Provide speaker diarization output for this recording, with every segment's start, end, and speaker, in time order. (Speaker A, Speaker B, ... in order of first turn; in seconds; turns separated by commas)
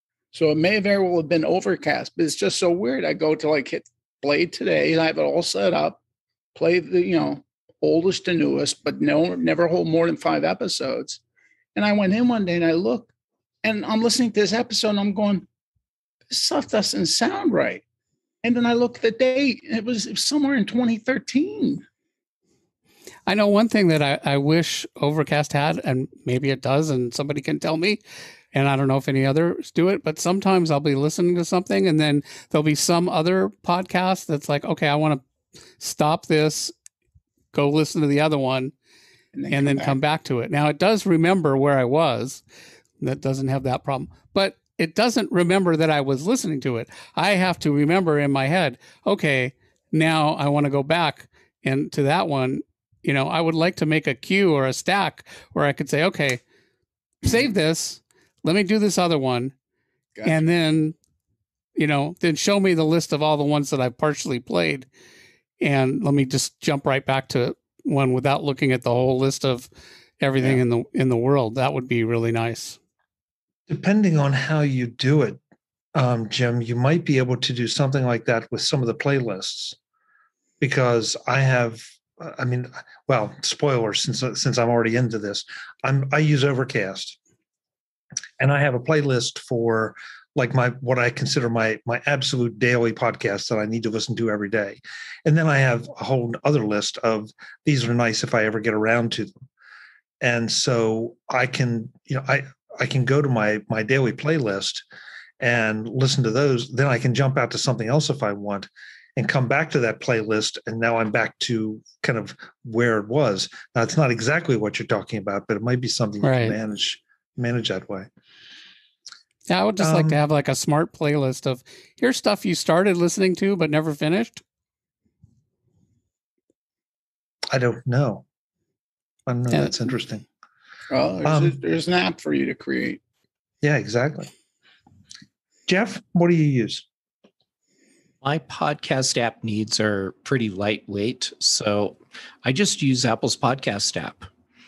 Speaker A: 0.3-6.0, Speaker A: 6.5-11.2, Speaker A: 11.8-13.1, Speaker A: 13.6-15.5, Speaker A: 16.3-17.8, Speaker A: 18.4-21.8, Speaker B: 23.3-28.0, Speaker B: 28.5-35.2, Speaker B: 35.8-36.7, Speaker B: 37.5-38.7, Speaker A: 39.3-40.0, Speaker B: 39.5-42.4, Speaker B: 43.0-56.4, Speaker B: 57.2-59.5, Speaker B: 60.2-61.0, Speaker B: 61.8-64.9, Speaker B: 65.6-72.8, Speaker C: 73.7-75.4, Speaker C: 76.0-79.8, Speaker C: 80.6-87.2, Speaker C: 88.4-99.3, Speaker C: 100.2-104.8, Speaker C: 105.4-118.1, Speaker B: 116.2-116.6, Speaker B: 119.5-124.4, Speaker C: 119.8-120.2, Speaker C: 127.5-128.2, Speaker C: 129.3-130.2, Speaker B: 129.5-129.9, Speaker A: 130.9-133.0, Speaker C: 131.2-131.6, Speaker C: 133.6-134.3, Speaker C: 135.7-136.8, Speaker D: 138.2-144.3